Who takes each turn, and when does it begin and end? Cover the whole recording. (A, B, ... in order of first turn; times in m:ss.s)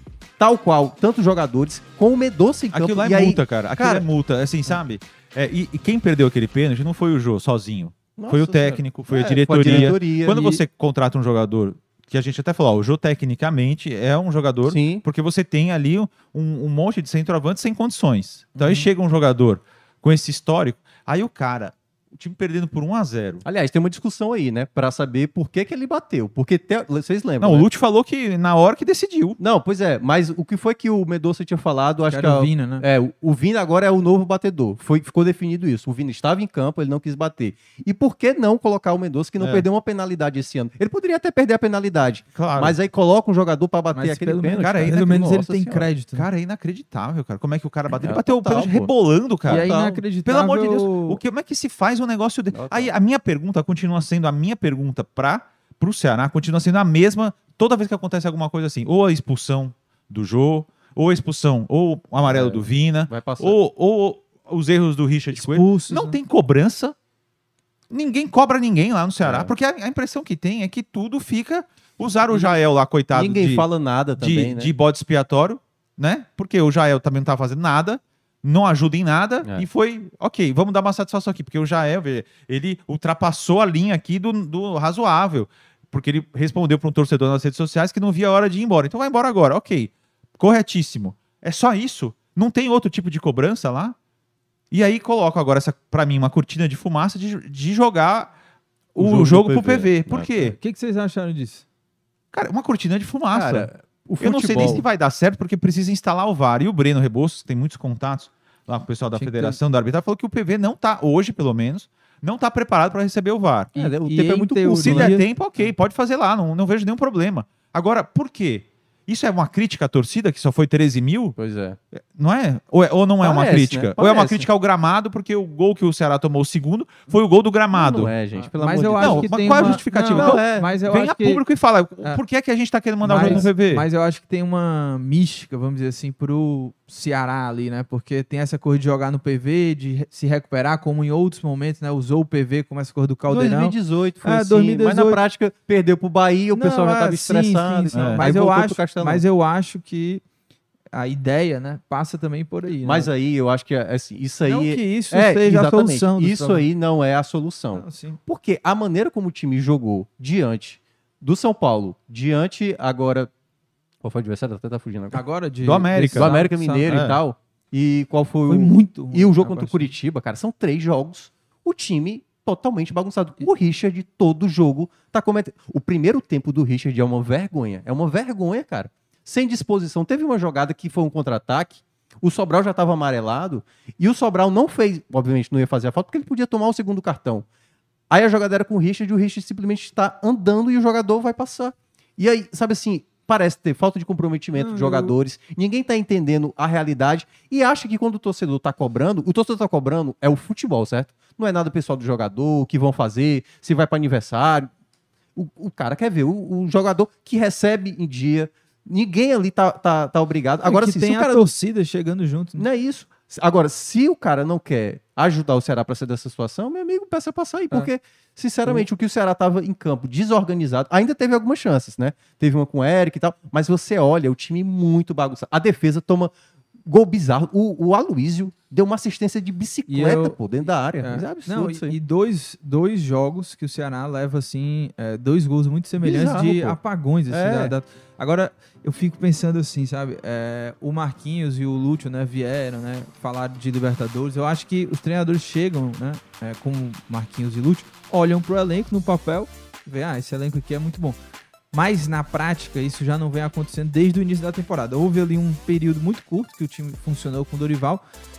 0:00.4-0:04.1 A
0:02.7-0:23.4 B
0:08.2-0:10.6 A
0:09.6-0:09.9 C
0:14.6-0:15.0 A
0:18.6-0:18.9 A
0:23.4-0:27.7 A
0:27.4-0:29.4 B
0:29.4-0:45.9 A
0:32.1-0:32.8 C
0:39.4-0:39.7 B
0:42.3-0:42.8 B
0:43.9-0:46.3 C
0:44.6-0:45.1 B
0:46.2-0:49.7 B
0:47.9-0:48.9 A
0:49.5-0:50.0 A
0:49.5-0:51.2 C
0:50.2-1:07.0 B
0:52.5-0:52.9 A
1:02.2-1:03.6 A
1:05.3-1:06.2 C
1:07.9-1:13.7 B
1:09.2-1:09.5 A
1:12.3-1:12.6 A
1:13.1-1:14.7 A
1:14.2-1:34.0 B
1:34.7-1:38.3 B
1:38.9-1:40.6 B
1:39.0-1:40.3 A
1:40.4-1:41.6 C
1:42.3-1:53.7 B
1:43.3-1:44.8 A
1:49.1-1:49.6 C
1:53.7-1:55.2 A
1:53.8-1:55.2 C
1:54.8-2:01.4 B
2:01.4-2:01.8 A
2:01.9-2:08.1 B
2:03.2-2:04.5 A
2:07.7-2:10.7 A
2:08.3-2:11.4 C
2:09.0-2:13.8 B
2:13.0-2:25.2 C
2:13.1-2:13.5 A
2:23.3-2:29.2 A
2:26.5-2:30.2 C
2:27.9-2:28.3 B
2:30.9-2:33.1 C
2:32.8-2:43.3 A
2:34.4-2:36.7 C
2:37.7-2:38.2 C
2:44.0-2:45.2 A
2:45.1-2:47.0 C
2:45.6-2:47.2 B
2:46.1-3:07.4 A
2:48.5-2:49.9 C
3:08.1-3:24.7 A
3:14.6-3:15.1 C
3:25.4-3:31.4 A
3:30.6-3:32.6 C
3:32.6-3:46.3 A
3:46.8-3:51.9 A
3:49.9-3:50.4 C
3:51.0-4:11.2 C
3:56.0-3:56.8 A
3:57.3-3:57.7 A
4:11.7-4:18.0 C